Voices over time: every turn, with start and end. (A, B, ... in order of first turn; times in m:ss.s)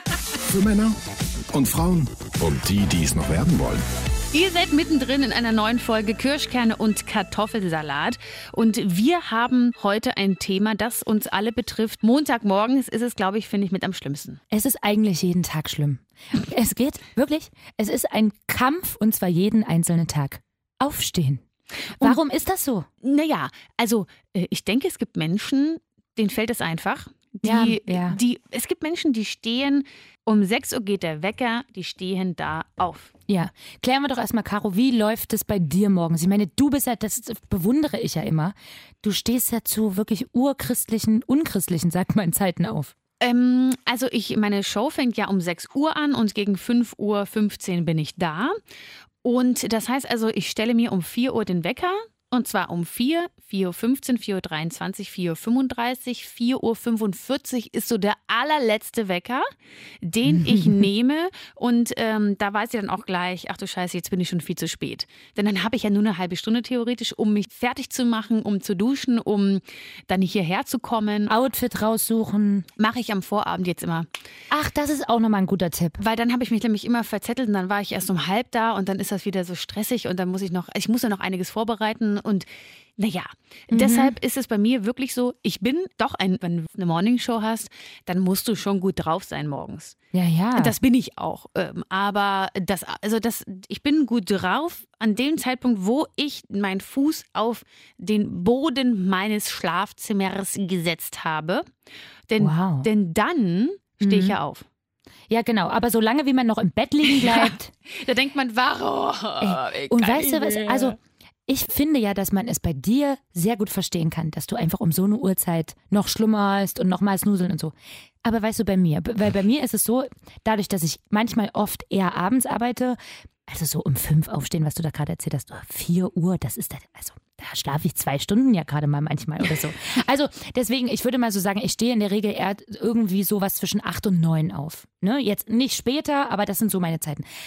0:00.4-0:01.0 A
0:01.5-0:03.8 A
0:04.3-0:14.4 B
0:14.5-0:21.4 C
0:21.9-0:22.2 B
0:22.0-0:22.9 C
0:23.0-0:33.1 B
0:27.4-0:28.2 C
0:33.3-0:42.9 C
0:43.2-0:48.6 B
0:49.2-0:59.4 B
1:00.0-1:11.3 B
1:00.2-1:00.8 C
1:11.3-1:12.7 C
1:12.8-1:14.1 B
1:14.5-1:16.0 C
1:16.0-1:29.9 B
1:23.7-1:24.1 C
1:30.1-1:30.7 C
1:30.5-1:41.6 B
1:42.3-1:44.6 B
1:42.4-1:42.9 C
1:44.0-1:44.4 C
1:45.3-1:47.7 C
1:47.0-1:51.0 B
1:49.4-1:57.7 C
1:58.2-2:17.2 C